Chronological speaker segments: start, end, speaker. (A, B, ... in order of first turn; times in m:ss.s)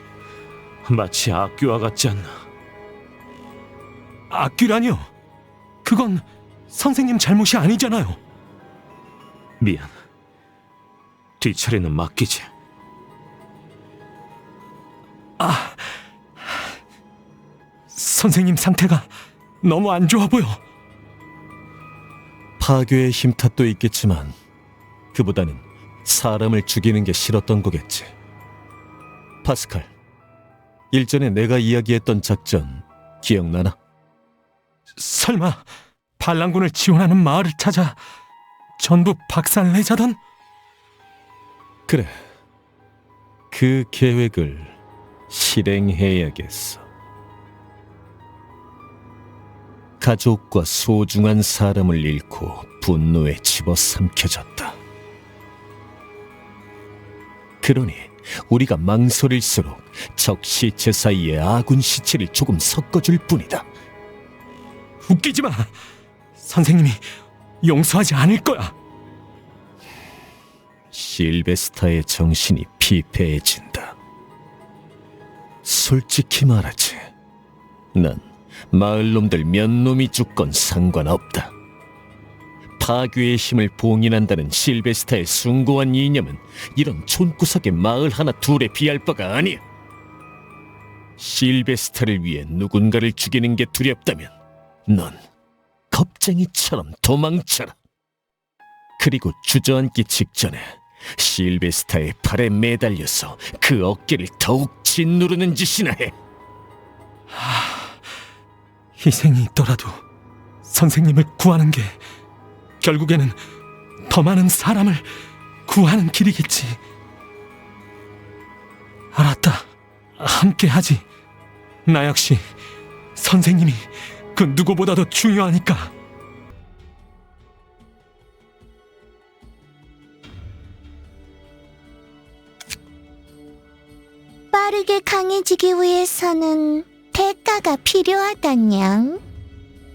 0:00.8-0:02.4 A
0:04.3-0:05.1 B
0:05.8-0:08.2 B
0:09.6-0:09.9 A
0:11.4-0:12.5 A
0:15.4-0:15.8 B
0:17.9-0:19.1 B
0:19.6-0:20.6 B
0:22.6-0:24.4 C
0:25.1-0:28.1 C
0:29.4-0:29.9 C
0:30.9-0:33.8 C
0:35.0-0:35.6 B
0:36.2-0:38.0 B
0:38.8-0:40.2 B
0:41.9-0:42.2 C
0:43.5-0:44.8 C
0:45.3-0:46.8 C
0:50.0-0:54.8 C
0:57.6-1:03.7 C
1:05.0-1:05.7 B
1:06.4-1:07.0 B
1:07.6-1:08.7 B
1:10.9-1:14.0 C
1:15.6-1:17.1 C
1:17.9-1:21.5 C
1:22.8-1:29.6 C
1:31.2-1:34.3 C
1:34.9-1:35.2 C
1:35.9-1:37.8 C
1:39.0-1:46.1 C
1:47.3-1:48.0 B
1:49.0-1:50.0 B
1:50.6-1:52.0 B
1:52.8-1:53.4 B
1:54.0-1:55.1 B
1:55.7-1:56.8 B
1:59.1-1:59.6 B
2:00.2-2:01.0 B
2:01.8-2:02.5 B
2:03.2-2:05.9 B
2:14.5-2:19.2 D